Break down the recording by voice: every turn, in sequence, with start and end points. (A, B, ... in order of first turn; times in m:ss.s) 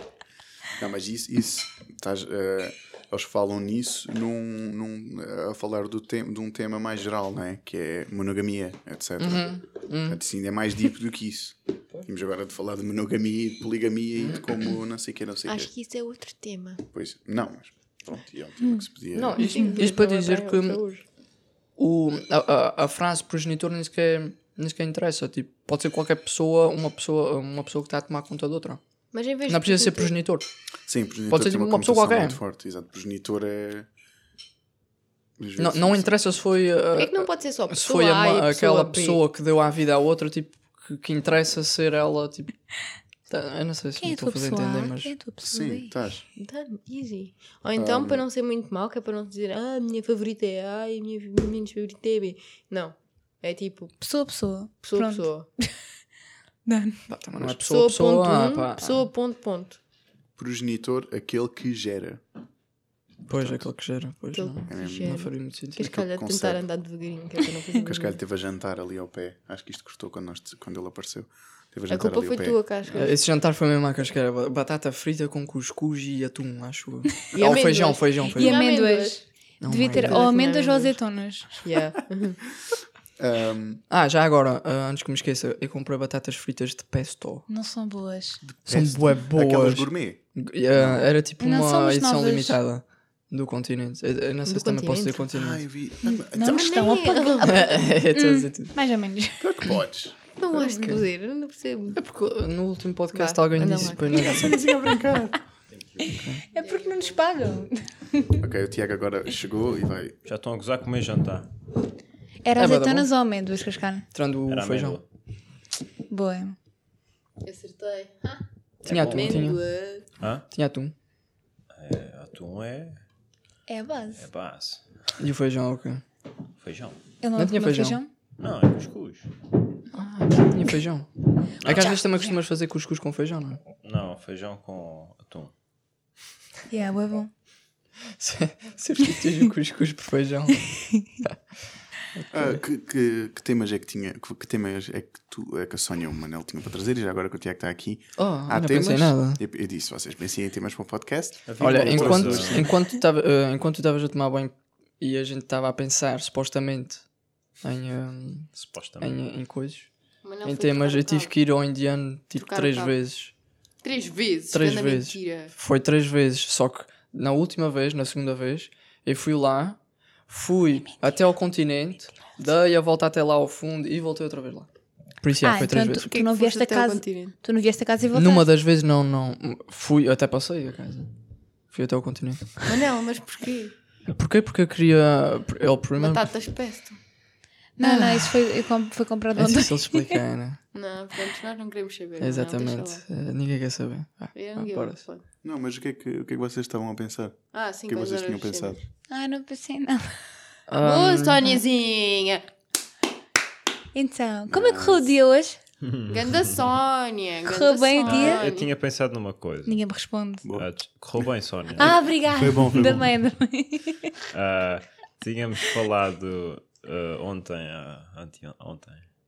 0:00.8-0:15.7 A
0:09.2-0:10.2 B
0:14.2-0:14.4 B
0:15.5-0:16.8 C
0:16.9-0:19.6 A
0:19.1-0:20.8 B
0:19.4-0:21.0 C
0:19.4-0:19.7 D
0:21.8-0:28.8 B
0:29.1-0:30.1 C
0:29.5-0:30.5 B
0:30.9-0:33.9 A
0:31.3-0:32.4 B
0:35.4-0:36.6 A
0:35.6-0:42.6 B
0:36.9-0:39.2 C
0:43.3-0:45.1 B
0:44.0-0:45.9 D
0:45.4-0:46.2 A
0:46.4-0:54.0 C
0:47.8-0:48.2 A
0:54.0-0:55.7 D
0:54.8-0:55.5 C
0:56.7-0:57.0 D
0:57.1-0:59.1 B
0:57.4-0:59.8 C
1:00.4-1:02.2 A
1:03.3-1:05.8 B
1:03.3-1:03.7 A
1:04.3-1:08.2 C
1:04.7-1:05.2 A
1:05.8-1:06.6 A
1:07.8-1:12.6 A
1:11.9-1:13.1 C
1:12.9-1:18.6 B
1:17.3-1:19.2 C
1:18.3-1:21.6 D
1:19.6-1:20.3 B
1:20.0-1:21.0 C
1:21.6-1:22.4 C
1:23.2-1:23.8 A
1:23.9-1:27.5 B
1:27.5-1:28.4 D
1:28.4-1:30.2 A
1:28.7-1:35.6 B
1:30.7-1:31.1 A
1:31.4-1:32.6 D
1:34.5-1:35.3 C
1:35.3-1:37.0 A
1:36.3-1:39.5 D
1:36.4-1:37.8 C
1:37.4-1:38.7 B
1:39.4-1:40.2 A
1:40.4-1:42.0 C
1:40.5-1:41.0 B
1:42.0-1:44.6 B
1:43.1-1:44.5 C
1:44.1-1:45.4 A
1:45.7-1:46.1 E
1:46.1-1:46.4 B
1:46.5-1:48.4 D
1:46.6-1:47.2 C
1:48.4-1:50.2 A
1:50.2-1:51.5 E
1:52.4-1:54.1 D
1:52.6-1:53.1 B
1:54.1-1:55.0 B
1:54.5-1:55.0 E
1:56.1-1:56.6 D
1:57.4-1:58.4 C
1:58.8-1:59.6 E
1:58.9-1:59.6 B
1:59.0-2:00.1 C
2:00.2-2:00.4 E
2:00.5-2:00.9 B
2:01.8-2:03.0 E
2:03.7-2:04.2 D
2:04.2-2:04.8 E
2:05.2-2:06.0 B
2:06.6-2:07.0 E
2:07.2-2:08.1 D
2:07.4-2:08.0 B
2:08.4-2:09.3 E
2:09.9-2:13.6 B
2:11.6-2:12.0 E
2:11.7-2:12.3 D
2:13.8-2:15.5 E
2:16.7-2:17.3 D
2:18.2-2:21.3 B
2:22.2-2:22.6 B
2:22.3-2:32.6 A
2:28.2-2:29.4 B
2:31.5-2:32.7 E
2:31.6-2:37.0 B
2:37.6-2:39.9 B
2:38.6-2:39.1 E
2:40.2-2:41.3 C
2:40.4-2:43.3 B
2:42.4-2:43.0 C
2:43.8-2:45.5 C
2:44.5-2:54.7 B
2:55.2-2:56.1 B
2:55.4-2:58.5 D
2:56.1-2:57.4 C
2:58.1-3:01.1 B
3:01.7-3:02.7 B
3:02.7-3:03.7 C
3:04.1-3:06.3 B
3:06.0-3:07.0 C
3:07.8-3:10.2 D
3:07.8-3:08.5 B
3:09.4-3:10.6 B
3:10.7-3:13.0 C
3:12.2-3:15.0 B
3:14.3-3:15.2 C
3:15.4-3:18.8 A
3:17.5-3:18.8 C
3:19.1-3:20.2 D
3:20.7-3:21.4 B
3:20.8-3:22.5 C
3:23.9-3:25.6 D
3:24.5-3:25.1 A
3:25.8-3:26.5 E
3:26.1-3:28.7 C
3:27.5-3:28.5 D
3:28.0-3:29.8 E
3:29.6-3:30.5 D
3:30.5-3:33.0 E
3:31.8-3:34.2 D
3:31.9-3:33.0 A
3:34.3-3:39.1 E